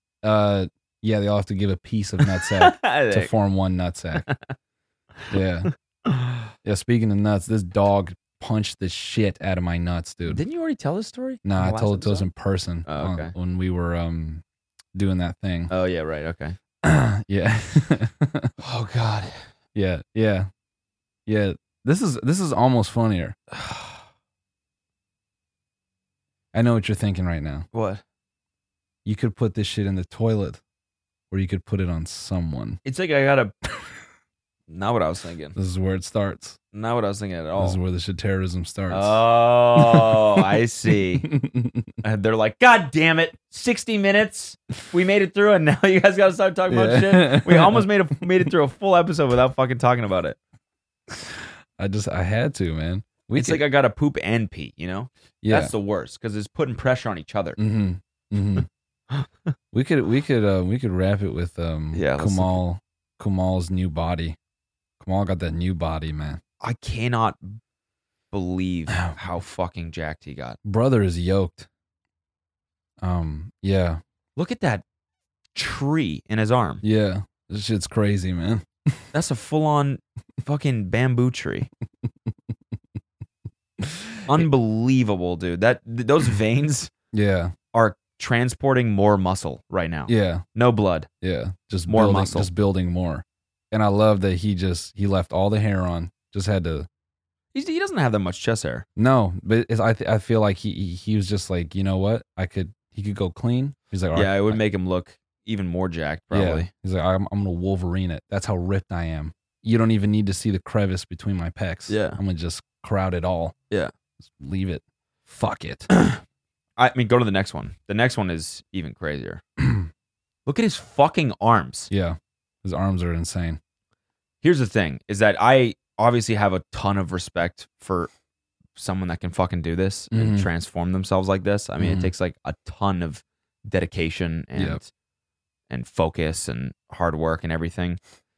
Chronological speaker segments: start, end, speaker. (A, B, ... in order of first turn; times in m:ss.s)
0:00.2-0:04.3 A
0:02.4-0:03.3 B
0:05.3-0:05.7 A
0:06.6-0:10.4 A
0:10.3-0:12.3 B
0:11.4-0:14.4 A
0:12.9-0:13.3 B
0:15.0-0:15.7 A
0:15.7-0:16.6 B
0:16.8-0:18.5 A
0:18.6-0:19.5 B
0:19.8-0:20.5 A
0:21.3-0:23.4 A
0:23.5-0:24.0 B
0:26.5-0:27.7 A
0:27.7-0:28.0 B
0:29.0-0:30.6 A
0:31.3-0:32.8 A
0:32.8-0:33.5 B
0:34.7-0:35.6 B
0:35.6-0:36.6 A
0:36.7-0:37.8 B
0:37.6-0:39.2 A
0:38.9-0:41.3 B
0:39.8-0:40.2 A
0:41.2-0:41.9 A
0:42.0-0:50.4 B
0:46.7-0:47.9 A
0:51.8-0:53.6 A
0:53.4-0:57.6 B
0:55.4-0:55.7 A
0:57.6-0:58.7 A
0:59.7-1:04.4 A
1:01.9-1:02.6 B
1:05.0-1:06.4 A
1:06.6-1:07.6 B
1:08.3-1:10.6 B
1:10.6-1:11.7 A
1:13.0-1:14.0 A
1:14.4-1:14.8 B
1:15.6-1:16.8 B
1:16.8-1:19.0 A
1:19.1-1:21.7 B
1:23.8-1:24.5 A
1:24.3-1:26.9 B
1:27.1-1:27.5 A
1:27.7-1:31.1 B
1:30.1-1:30.4 A
1:31.2-1:36.9 A
1:31.9-1:32.5 B
1:37.5-1:38.8 B
1:39.0-1:44.6 A
1:44.1-1:46.7 B
1:46.3-1:53.6 A
1:51.9-1:52.2 B
1:54.2-1:55.9 A
1:56.8-1:59.4 B
1:59.6-1:59.9 A
2:00.5-2:01.9 B
2:01.9-2:03.6 A
2:04.4-2:08.1 B
2:08.8-2:14.9 B
2:10.1-2:10.5 A
2:11.8-2:12.1 A
2:15.7-2:18.0 B